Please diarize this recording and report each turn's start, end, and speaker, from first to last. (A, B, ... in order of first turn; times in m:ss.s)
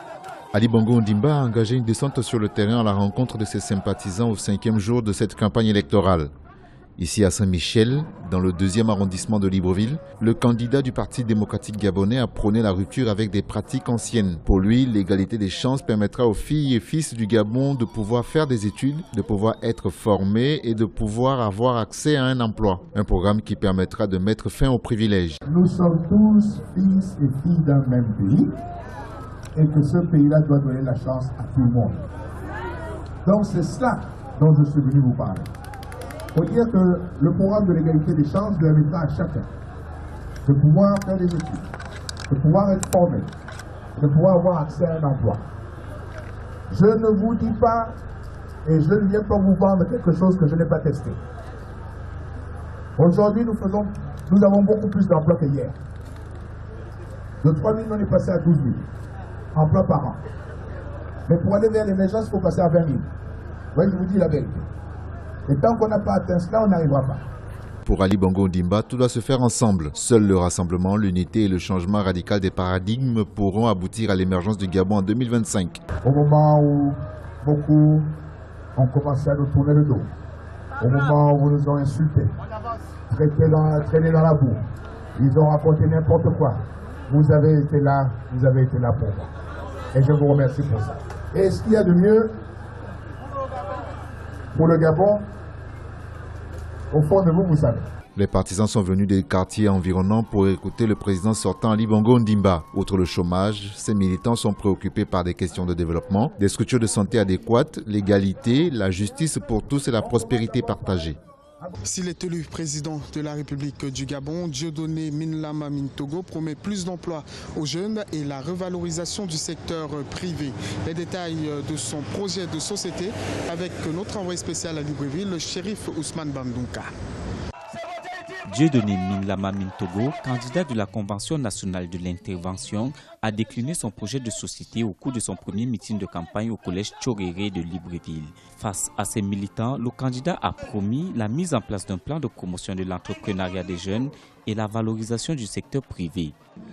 0:00.5-0:06.3 A
0:07.0-0:25.4 A
0:25.4-0:28.5 B
0:29.5-0:32.0 B
0:33.2-0:35.5 B
0:36.3-0:39.5 B
0:40.4-0:41.6 B
0:42.3-0:43.3 B
0:44.0-0:45.4 B
0:46.7-0:48.0 B
0:48.6-0:51.2 B
0:53.0-0:55.7 B
0:57.4-0:58.8 B
0:59.5-1:00.2 B
1:01.3-1:03.0 B
1:03.7-1:04.6 B
1:05.5-1:07.2 B
1:07.8-1:15.8 A
1:16.0-1:18.1 B
1:18.8-1:20.0 B
1:20.8-1:22.3 B
1:23.1-1:24.6 B
1:25.2-1:26.6 B
1:27.1-1:29.3 B
1:29.9-1:32.3 B
1:34.5-1:35.2 B
1:36.9-1:37.8 B
1:38.1-1:51.2 A
1:51.8-2:06.9 C
2:08.5-2:26.3 D